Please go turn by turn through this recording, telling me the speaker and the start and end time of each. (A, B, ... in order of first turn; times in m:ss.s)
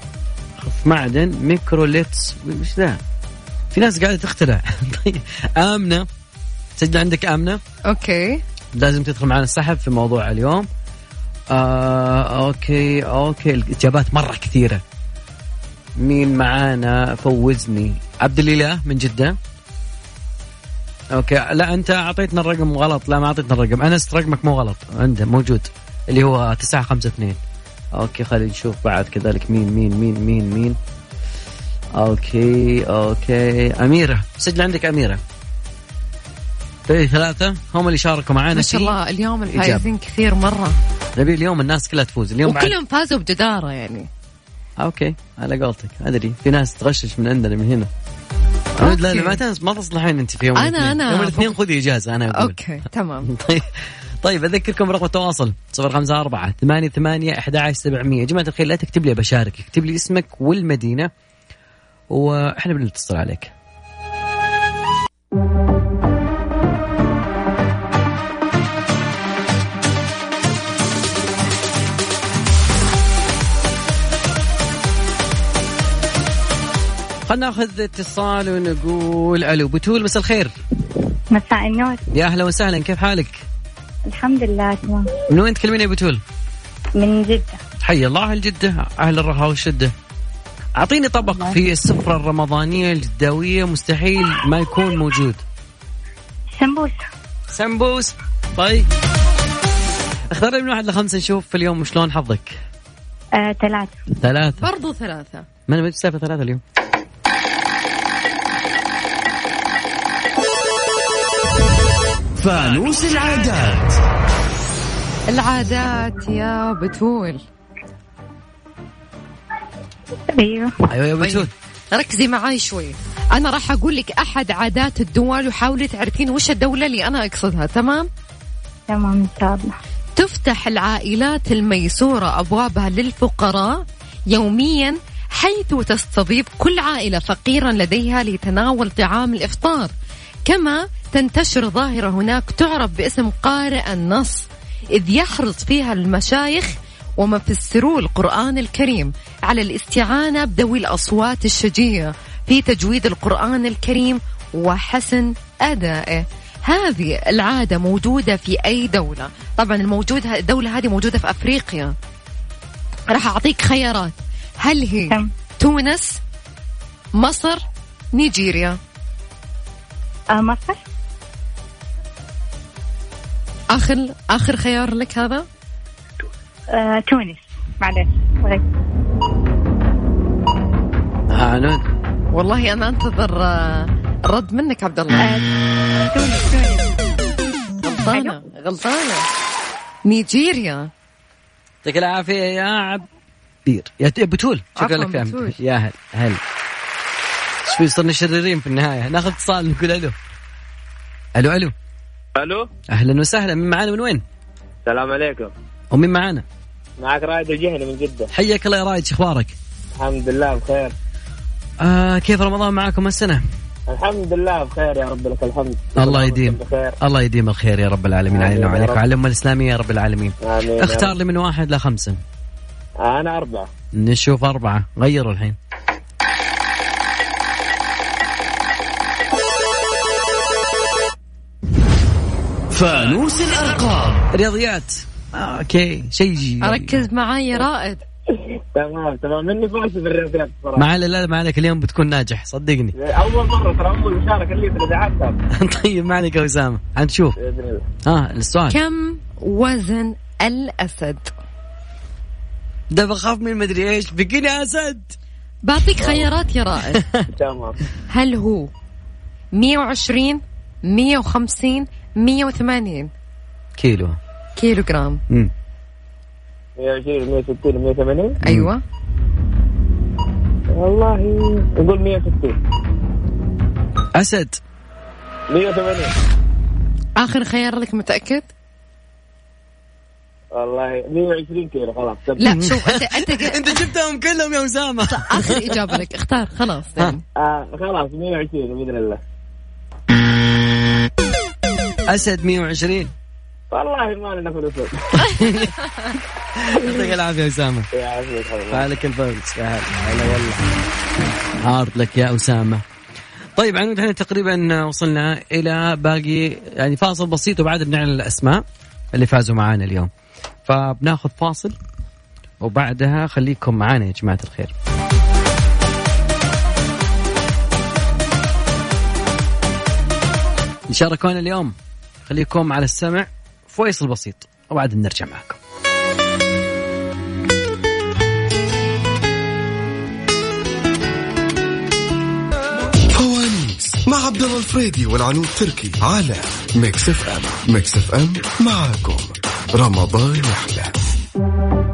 0:00.6-0:03.0 A
0:03.7-0:06.1 A
0:06.8-0:07.6 A
0:07.9-0:08.4 B
0:08.8-0:10.7 A
0:11.5-0:14.8 A
0:16.0-0:19.4 A
0:21.1-0:27.4 A
0:27.9-0:30.8 A
0:32.0-0:35.2 A
0:36.9-0:39.0 A
0:38.5-0:40.8 B
0:39.5-0:39.9 A
0:41.2-0:42.8 A
0:42.4-0:44.1 B
0:44.8-0:47.9 A
0:48.8-0:52.6 A
0:48.8-0:49.4 B
0:50.6-0:51.6 B
0:52.4-0:53.3 B
0:53.3-1:01.1 A
1:02.1-1:03.5 A
1:17.3-1:20.5 A
1:21.3-1:22.0 C
1:22.1-1:23.4 A
1:24.1-1:25.1 C
1:25.3-1:26.2 A
1:27.0-1:27.6 C
1:27.8-1:29.9 A
1:30.8-1:35.4 A
1:31.2-1:31.6 C
1:36.5-1:37.0 C
1:37.5-1:38.9 A
1:40.3-1:42.6 A
1:43.4-1:44.0 C
1:44.2-1:44.6 A
1:44.6-1:45.5 B
1:45.7-1:46.6 A
1:52.4-1:54.0 D
1:55.3-1:57.4 B
2:00.4-2:00.7 C
2:00.9-2:01.5 A
2:01.2-2:08.1 B
2:08.9-2:09.7 C
2:10.2-2:19.9 B
2:20.5-2:42.0 B
2:43.1-2:46.2 B
2:47.2-2:48.8 B
2:50.3-2:50.8 C
2:53.7-2:55.5 B
2:56.7-2:58.6 C
3:01.3-3:01.8 A
3:02.3-3:05.3 B
3:05.2-3:06.9 C
3:07.8-3:09.3 B
3:08.0-3:08.4 C
3:10.1-3:10.9 B
3:11.8-3:13.1 A
3:13.7-3:16.4 A
3:14.8-3:15.6 B
3:17.7-3:20.2 A
3:21.4-3:21.7 A
3:22.4-3:22.7 E
3:22.9-3:24.2 A
3:24.8-3:25.5 E
3:25.9-3:26.4 A
3:27.0-3:28.3 E
3:28.3-3:29.6 A
3:30.0-3:30.9 E
3:31.8-3:33.4 A
3:33.9-3:37.0 E
3:36.0-3:42.2 A
3:38.3-3:39.0 E
3:40.4-3:41.2 E
3:43.0-3:43.7 E
3:43.9-3:45.6 A
3:52.7-3:54.2 D
3:54.3-3:57.0 A
3:56.6-3:58.0 B
3:58.7-4:00.9 E
4:00.8-4:02.9 A
4:03.0-4:05.4 E
4:05.5-4:07.4 A
4:07.4-4:07.8 E
4:08.0-4:08.8 A
4:08.7-4:11.3 B
4:12.9-4:15.2 A
4:15.6-4:17.1 B
4:16.0-4:16.3 E
4:16.9-4:17.3 A
4:17.3-4:17.8 E
4:18.1-4:18.7 B
4:19.6-4:23.1 B
4:23.8-4:24.2 A
4:24.6-4:25.2 B
4:26.8-4:28.4 E
4:28.4-4:28.8 B
4:30.7-4:32.6 E
4:34.1-4:34.6 A
4:35.5-4:36.1 E
4:37.2-4:38.5 B
4:40.5-4:42.5 E
4:42.4-4:43.8 B
4:42.5-4:46.0 A
4:45.0-4:47.2 B
4:47.4-4:49.2 E
4:52.1-4:53.1 A
4:53.7-4:55.3 E
4:55.2-4:55.8 A
4:56.6-4:57.9 A
4:57.9-4:58.9 E
4:58.7-5:00.6 A
5:01.6-5:02.8 A
5:03.6-5:10.1 A
5:10.7-5:11.8 A
5:12.6-5:14.7 A
5:20.9-5:21.7 A
5:22.3-5:25.6 A
5:33.1-5:41.0 F